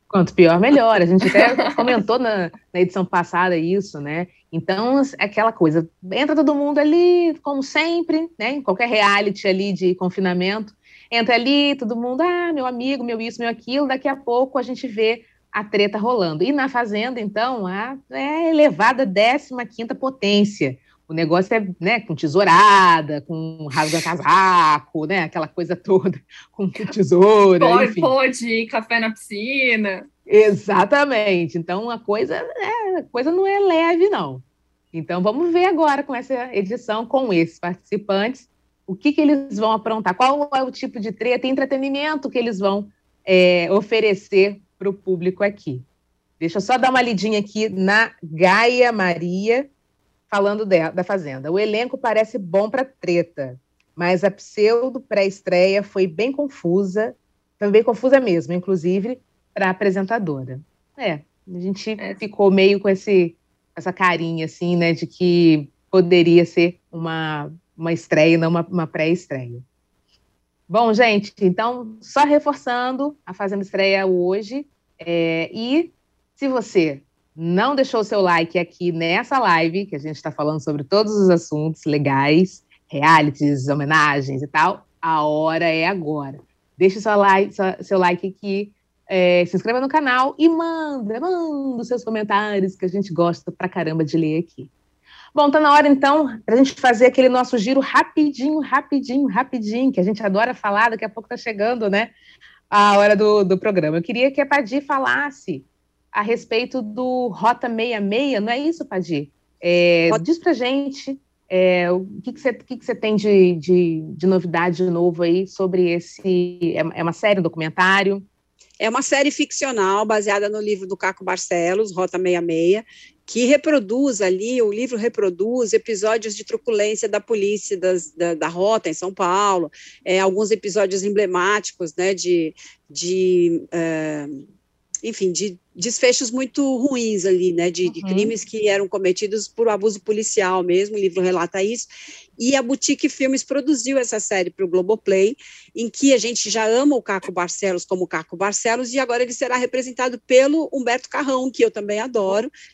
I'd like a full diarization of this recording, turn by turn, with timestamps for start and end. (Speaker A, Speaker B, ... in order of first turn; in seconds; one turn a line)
Speaker A: 0.1-28.1
Speaker B: 1.2-1.9
Speaker B: 27.6-30.1
Speaker A: 30.3-45.9
Speaker A: 46.4-49.7
Speaker A: 50.3-69.6
Speaker B: 62.0-62.2
Speaker A: 70.7-94.7
Speaker A: 95.3-102.1
Speaker A: 102.7-118.3
Speaker C: 118.8-134.4
Speaker C: 135.0-152.5
Speaker A: 137.9-138.3